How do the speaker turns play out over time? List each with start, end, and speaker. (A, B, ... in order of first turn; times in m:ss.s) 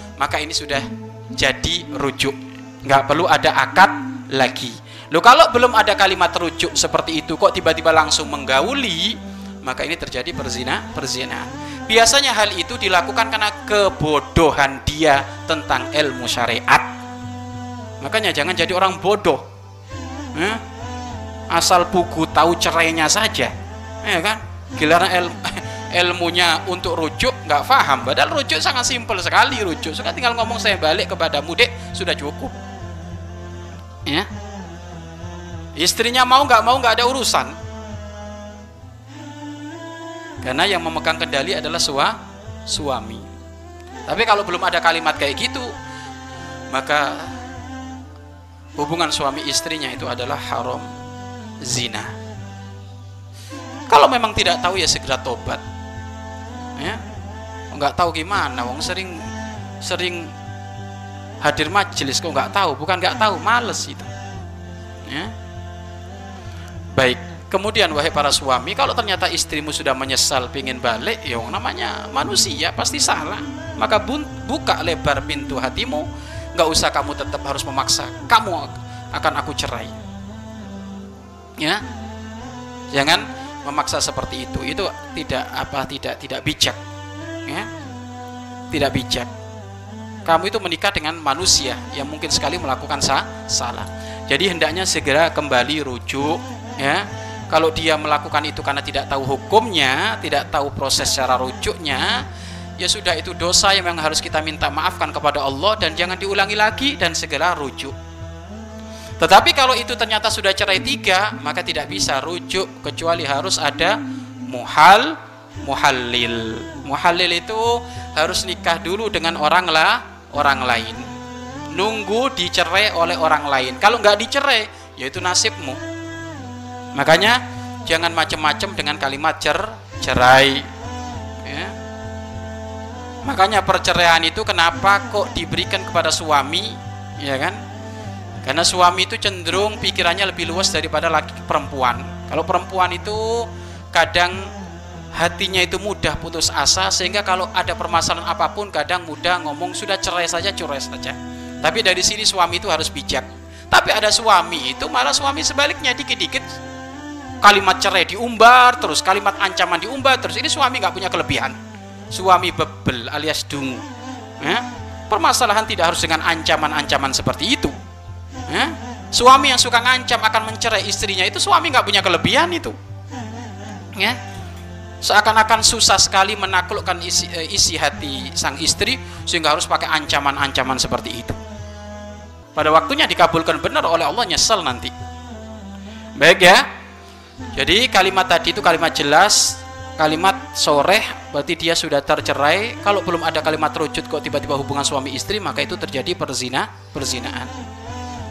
0:00.2-0:16.9 A
0:18.0-0:19.4 A
0:20.3-0:20.6 A
0:21.5-0:23.5 A
0:24.0-0:32.5 A
0:35.8-0:37.5 A
0:40.4-0:42.2 A
0:42.7-0:43.2 A
0:44.1-0:45.7 A
0:46.7-0:47.3 A
0:48.8-0:50.9 A
0:51.6-0:52.1 A
0:53.9-0:55.6 A
0:57.7-0:59.2 A
0:59.8-1:00.3 A
1:01.4-1:04.1 A
1:05.0-1:05.3 A
1:06.9-1:19.9 A
1:22.9-1:26.8 A
1:28.7-1:29.3 A
1:30.2-1:42.2 A
1:42.8-1:47.9 A
1:49.2-1:53.9 A
1:54.5-2:01.0 A
2:01.7-2:05.8 A
2:06.9-2:10.6 A
2:11.4-2:11.7 A
2:13.2-2:17.6 A
2:18.4-2:24.4 A
2:25.1-2:36.5 A
2:37.4-2:41.6 A
2:42.1-2:43.8 A
2:44.4-2:47.7 A
2:48.5-2:52.8 A
2:55.0-3:01.4 A
3:02.5-3:04.9 A
3:06.2-3:06.6 A
3:07.5-3:17.5 A